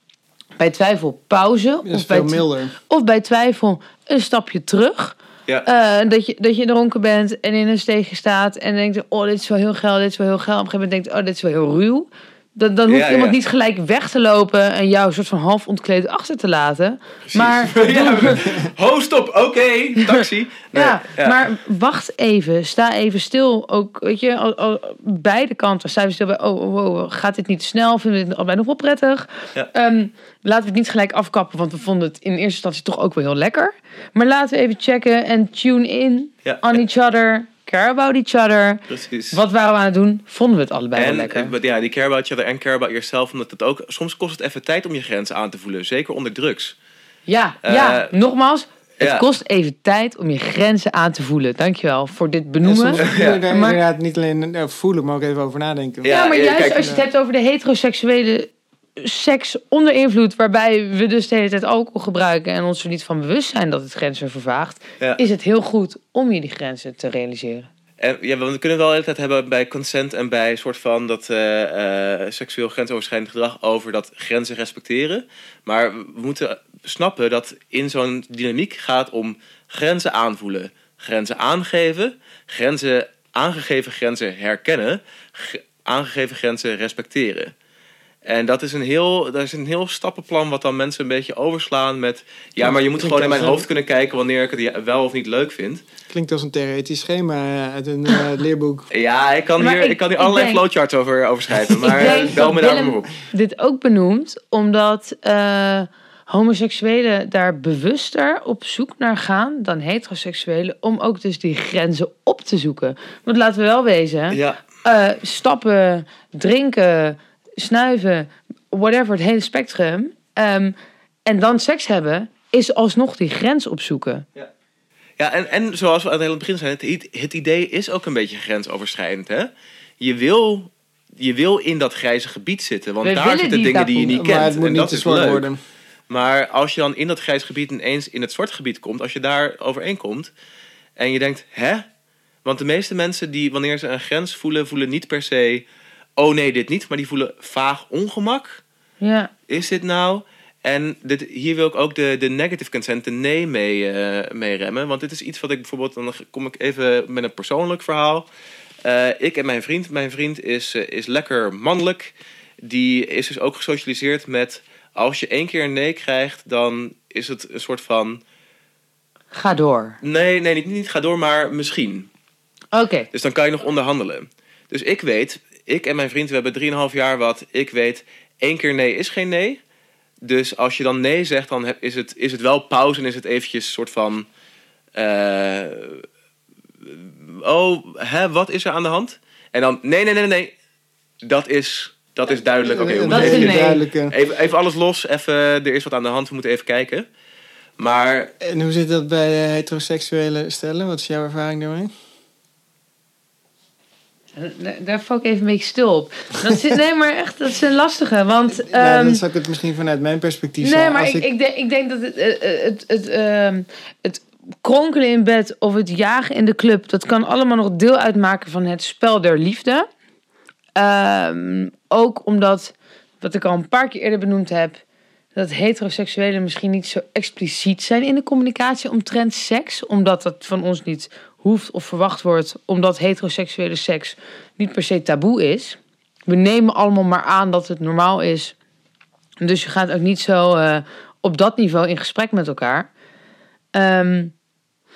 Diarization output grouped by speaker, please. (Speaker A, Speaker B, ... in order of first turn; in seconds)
Speaker A: 0.6-18.4, 20.7-41.5, 47.3-53.8, 56.1-67.7, 99.6-100.6, 101.8-120.7, 121.2-124.2, 133.0-134.4, 149.0-149.3, 169.3-170.0, 172.7-173.1, 193.1-193.8, 204.3-209.2, 210.6-219.9, 220.8-224.8, 225.3-238.5, 239.4-242.9, 243.7-244.3
Speaker B: 1.8-2.7, 52.6-56.1, 92.6-93.7, 96.1-98.9, 134.1-135.6, 192.6-194.1, 198.4-201.9, 208.6-211.3
Speaker C: 12.9-13.3, 17.3-21.4, 36.4-36.8, 38.9-39.4, 40.9-46.7, 47.6-48.1, 49.0-49.3, 53.0-53.4, 56.0-57.0, 68.0-87.5, 88.2-95.8, 98.9-103.1, 114.3-114.6, 125.2-135.5, 136.1-140.3, 141.0-141.8, 142.4-145.6, 146.2-148.6, 149.5-158.2, 158.8-168.2, 170.0-172.1, 173.1-179.6, 180.2-184.2, 184.9-186.0, 186.8-190.5, 191.2-197.0, 197.8-198.3